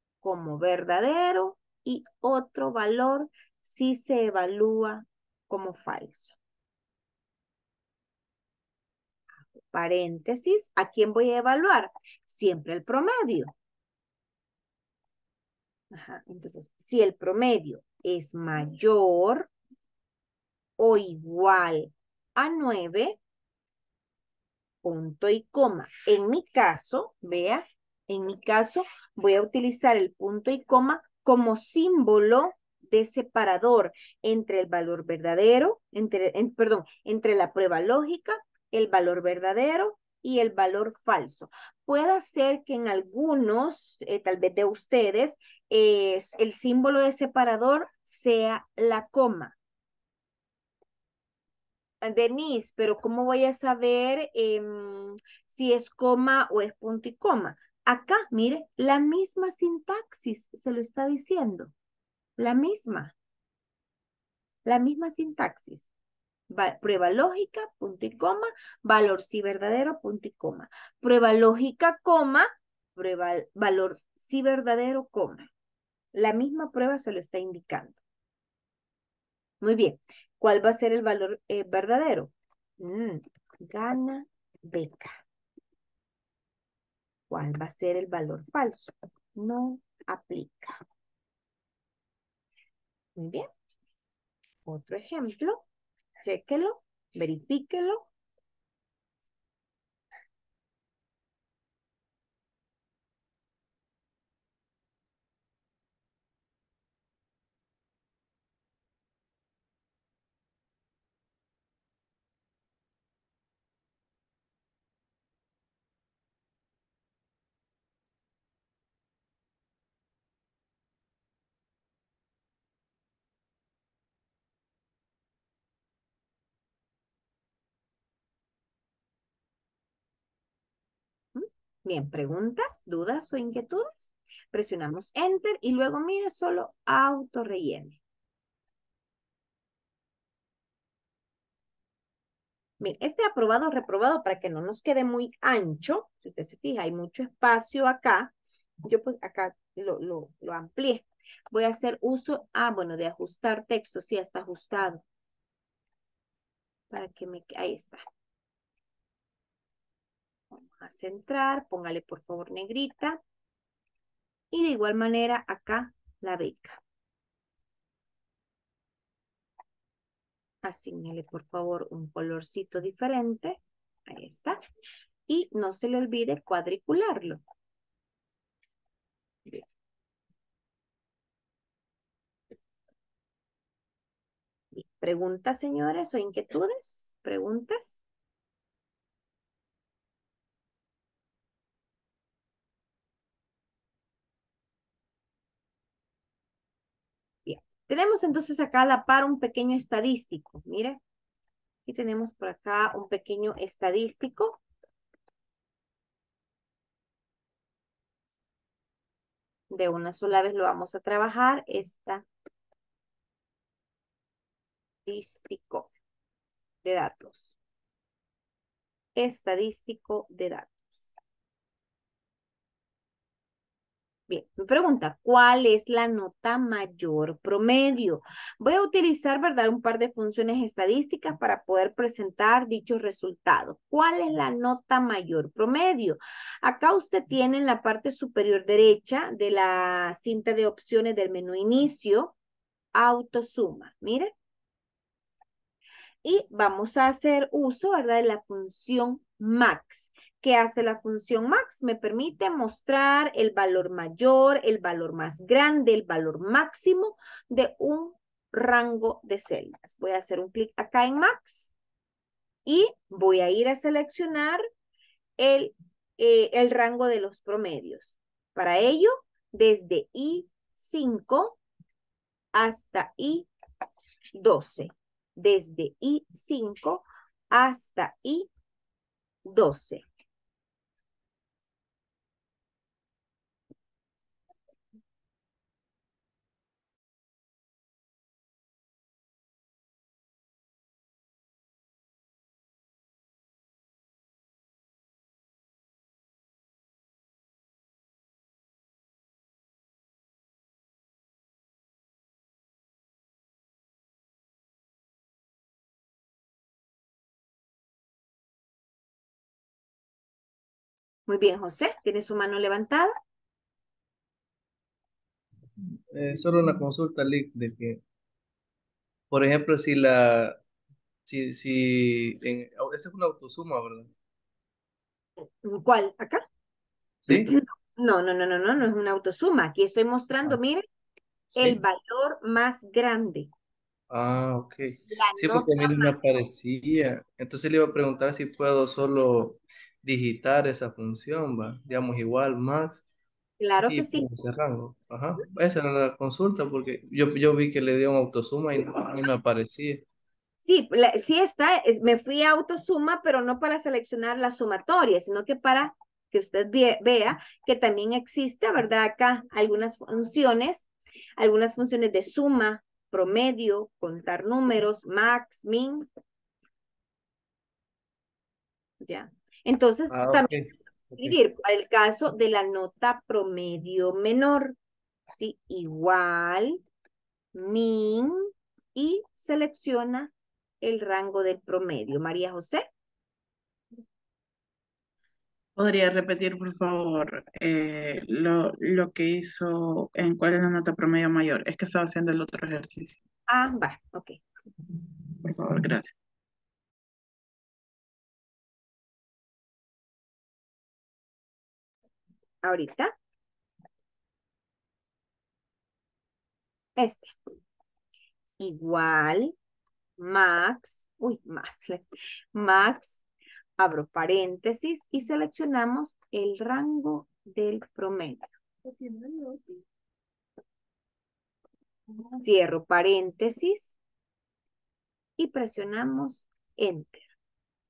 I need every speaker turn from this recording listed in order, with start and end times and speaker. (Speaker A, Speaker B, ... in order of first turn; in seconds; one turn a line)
Speaker A: 0.2-6.4
Speaker A: 9.5-13.5
Speaker A: 15.9-19.5
Speaker A: 20.8-23.2
Speaker A: 24.8-49.5
Speaker A: 52.0-61.7
Speaker A: 62.4-63.1
Speaker A: 64.6-65.9
Speaker A: 66.5-75.5
Speaker A: 76.1-78.0
Speaker A: 79.6-85.2
Speaker A: 87.3-90.8
Speaker A: 93.2-93.5
Speaker A: 94.7-95.6
Speaker A: 96.2-98.1
Speaker A: 131.3-138.0
Speaker A: 142.8-148.3
Speaker A: 148.8-155.0
Speaker A: 156.9-158.0
Speaker A: 160.5-163.2
Speaker A: 164.5-166.8
Speaker A: 170.6-174.6
Speaker A: 175.3-177.4
Speaker A: 184.7-188.0
Speaker A: 197.4-201.0
Speaker A: 201.8-204.6
Speaker A: 209.7-212.2
Speaker A: 215.1-215.9
Speaker A: 216.8-217.6
Speaker A: 219.2-221.1
Speaker A: 224.3-242.3
Speaker A: 242.9-244.3
Speaker A: 246.2-261.7
Speaker A: 262.6-264.6
Speaker A: 265.4-271.6
Speaker A: 272.5-273.5
Speaker A: 274.3-278.5
Speaker A: 279.4-280.0
Speaker A: 311.3-313.1
Speaker B: 316.1-318.0
Speaker B: 319.3-320.6
Speaker B: 321.2-324.1
Speaker A: 325.4-326.4
Speaker B: 327.2-327.5
Speaker A: 327.3-330.8
Speaker B: 331.6-331.8
Speaker A: 331.6-333.5
Speaker B: 334.1-343.1
Speaker A: 335.1-336.2
Speaker A: 343.6-344.3
Speaker B: 343.8-350.0
Speaker A: 350.6-366.1
Speaker A: 369.0-370.5
Speaker B: 370.1-371.4
Speaker A: 371.1-374.8
Speaker A: 375.3-376.8
Speaker A: 377.5-382.9
Speaker C: 385.8-393.2
Speaker A: 393.5-394.4
Speaker C: 395.4-396.1
Speaker A: 402.6-403.1
Speaker A: 407.0-407.3
Speaker A: 408.6-409.5
Speaker A: 410.2-413.2
Speaker A: 413.8-418.5
Speaker A: 422.3-424.0
Speaker A: 425.4-427.3